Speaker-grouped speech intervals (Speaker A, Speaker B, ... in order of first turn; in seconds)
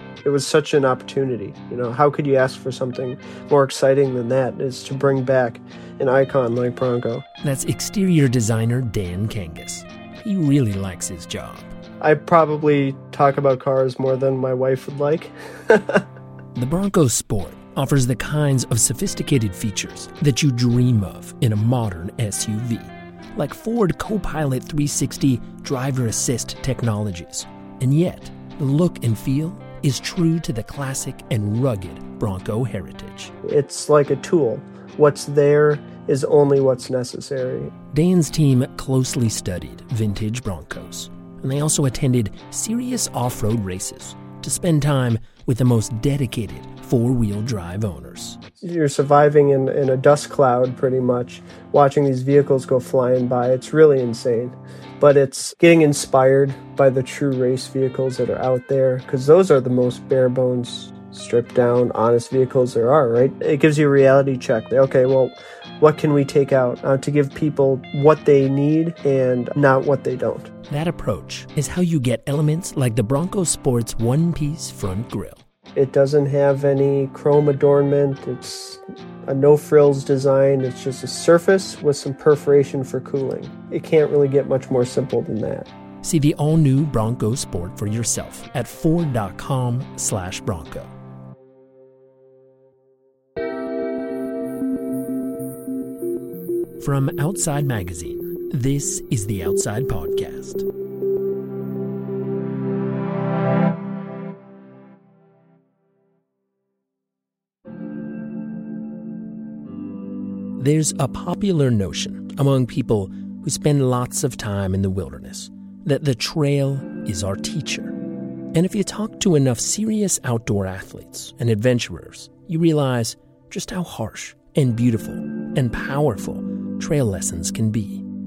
Speaker A: 0.2-7.2, 12.0-16.1, 33.4-37.7, 48.6-70.5, 75.8-85.7
Speaker B: 7.4-11.7, 16.6-33.3, 37.9-48.4, 70.7-75.4, 86.0-90.9, 96.8-100.7, 110.6-118.0, 118.5-128.0